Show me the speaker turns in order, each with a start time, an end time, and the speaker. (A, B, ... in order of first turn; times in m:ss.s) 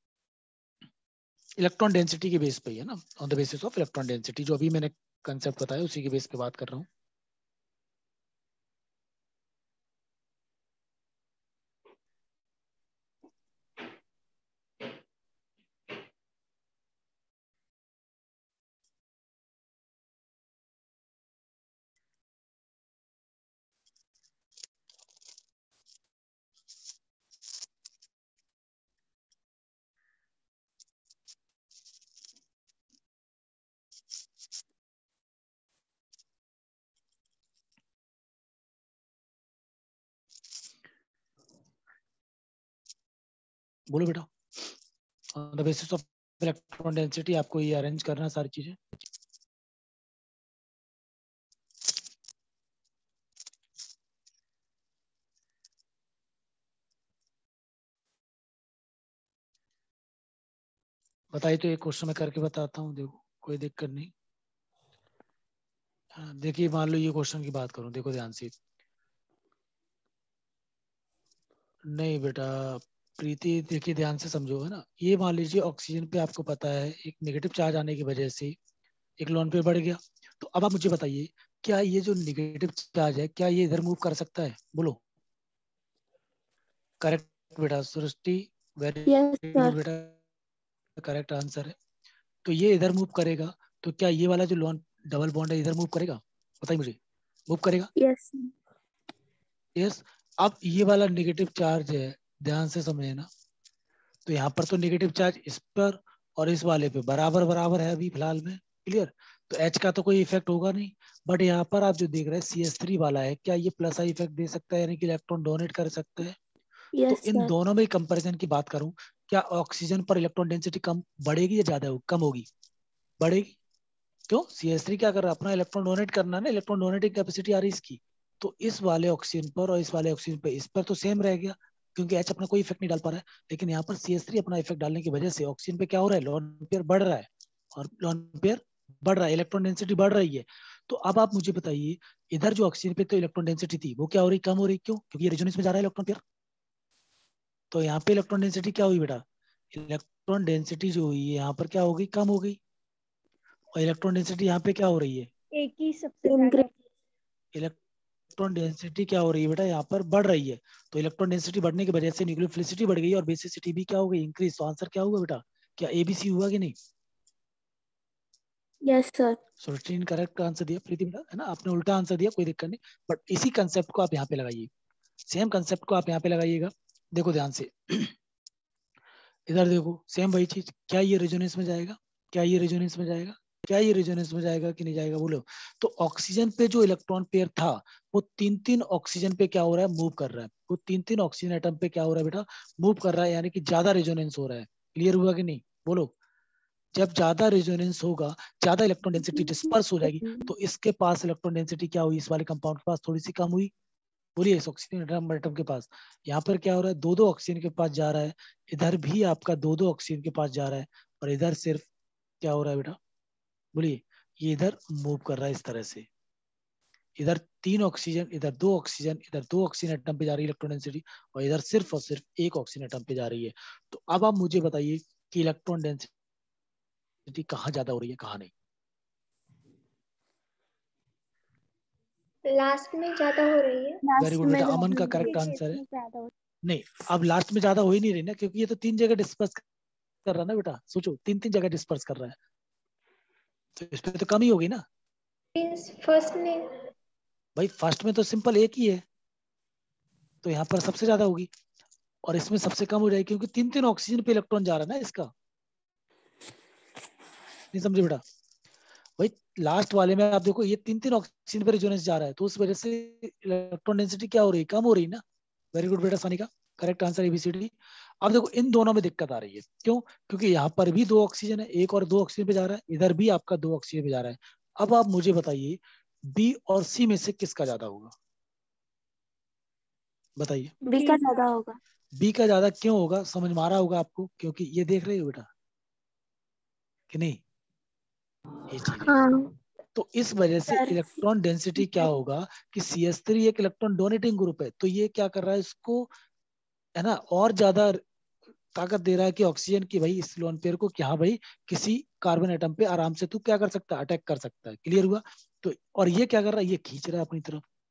0:01.6-0:06.9 A
0:43.9-0:44.3 A
0:45.3-0:48.8 A
1:01.3-1:04.1 A
1:06.1-1:08.5 A
1:11.9-1:18.6 A
1:19.2-1:25.0 A
1:27.0-1:30.2 A
1:29.0-1:29.8 B
1:31.0-1:31.7 A
1:32.4-1:37.0 A
1:37.5-1:37.9 A
1:38.0-1:38.5 B
1:39.8-1:43.2 A
1:44.2-1:56.4 A
1:56.9-1:57.5 B
1:57.1-2:02.5 A
2:03.2-2:03.6 A
2:04.3-2:26.2 A
2:27.7-2:32.6 A
2:33.8-2:35.3 A
2:35.6-2:36.8 C
2:36.2-2:36.6 B
2:38.4-2:46.7 A
2:48.8-2:49.4 B
2:49.6-2:54.7 A
2:55.3-2:58.1 A
2:59.5-3:16.1 A
3:16.9-3:23.7 A
3:24.4-3:31.9 A
3:32.4-3:33.0 A
3:33.7-3:36.1 A
3:37.2-3:46.1 A
3:47.3-3:48.5 A
3:52.5-3:54.0 C
3:54.0-3:55.5 B
3:54.2-3:55.8 A
3:55.1-3:56.3 C
3:56.6-3:59.6 A
4:00.2-4:02.4 A
4:03.8-4:04.8 A
4:05.5-4:06.8 C
4:07.6-4:09.0 A
4:10.4-4:11.5 A
4:12.2-4:15.3 A
4:17.7-4:18.2 A
4:19.2-4:25.2 A
4:25.7-4:38.1 A
4:40.4-4:40.7 A
4:40.8-4:41.2 C
4:40.8-4:41.8 B
4:42.2-4:45.5 A
4:47.1-4:47.4 A
4:48.7-4:49.1 A
4:49.1-4:49.5 C
4:49.9-4:56.1 A
4:50.7-4:51.0 B
4:57.0-4:58.0 A
4:58.7-5:07.6 A